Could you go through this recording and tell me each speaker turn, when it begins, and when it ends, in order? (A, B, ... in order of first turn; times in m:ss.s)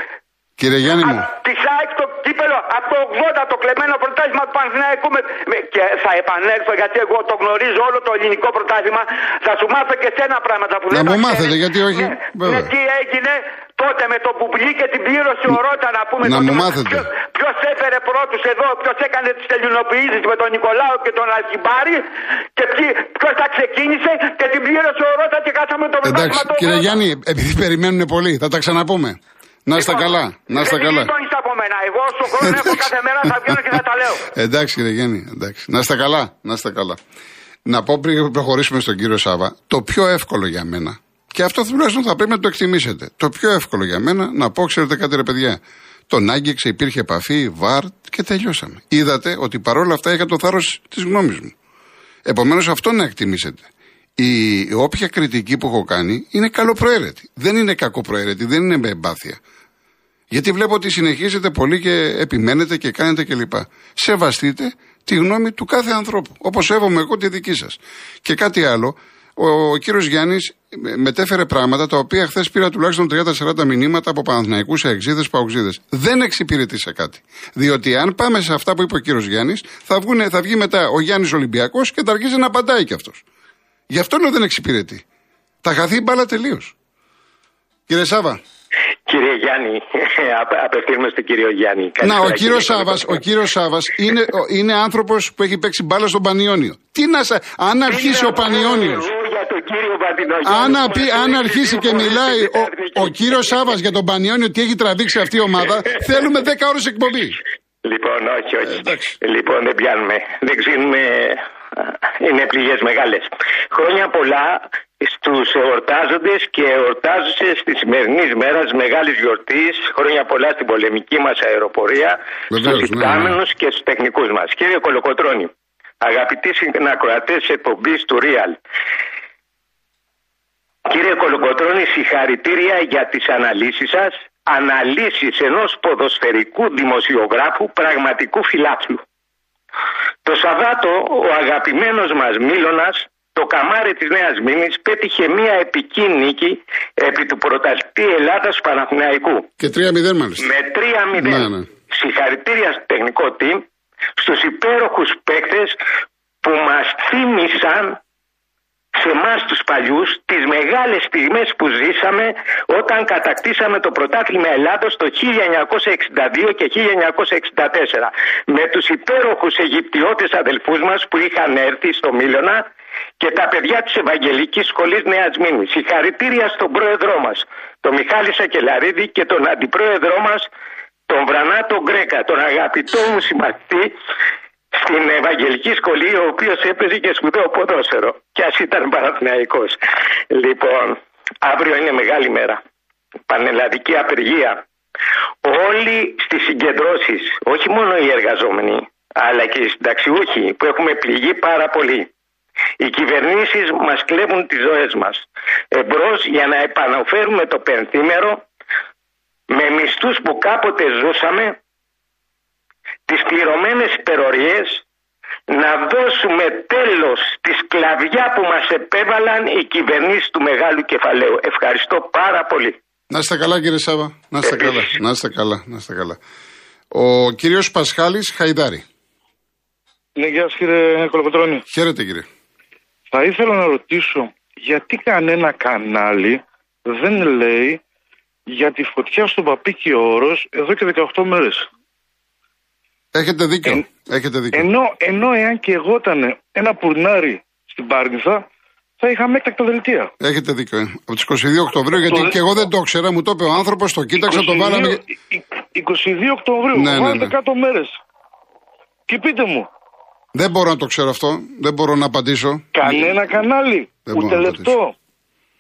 0:00.6-0:01.2 A
0:01.0-0:22.0 B
0:10.9-0:12.7 A
0:16.2-0:17.1 A
0:22.6-0:27.0 B
0:26.0-0:31.1 A
0:29.7-0:34.3 B
0:32.4-0:33.8 A
0:34.3-0:37.0 A
0:37.7-0:51.5 A
0:52.2-0:53.7 A
0:54.2-0:59.4 A
1:00.3-1:23.2 A
1:23.9-1:25.0 A
1:25.6-1:26.7 A
1:27.9-1:28.4 A
1:29.1-1:33.2 C
1:32.0-1:39.1 A
1:37.9-1:43.4 C
1:40.4-1:47.4 A
1:47.8-1:51.4 C
1:48.7-1:49.1 A
1:52.2-2:08.6 C
2:02.5-2:03.4 A
2:10.9-2:19.0 C
2:20.2-2:29.5 C
2:29.6-2:30.5 A
2:30.4-2:33.6 C
2:31.2-2:31.7 A
2:34.2-2:35.8 C
2:36.4-2:38.0 C
2:38.9-2:52.6 C
2:53.2-3:00.5 C
3:01.1-3:03.9 C
3:04.8-3:12.6 C
3:13.3-3:14.6 C
3:15.4-3:22.1 C
3:22.8-3:28.4 C
3:29.5-3:31.6 C
3:33.1-3:34.8 C
3:35.5-3:42.8 C
3:43.1-3:46.2 A
3:44.4-3:44.9 C
3:46.9-3:48.8 A
3:50.2-3:51.6 D
3:51.7-3:52.2 A
3:53.1-3:57.8 D
3:58.5-4:01.7 D
4:03.1-4:04.7 A
4:04.5-4:08.5 D
4:09.0-4:10.1 D
4:10.2-4:15.0 A
4:12.0-4:12.4 D
4:14.2-4:18.0 D
4:16.7-4:17.3 A
4:19.1-4:19.7 D
4:20.3-4:23.2 A
4:22.8-4:24.9 D
4:24.1-4:24.8 A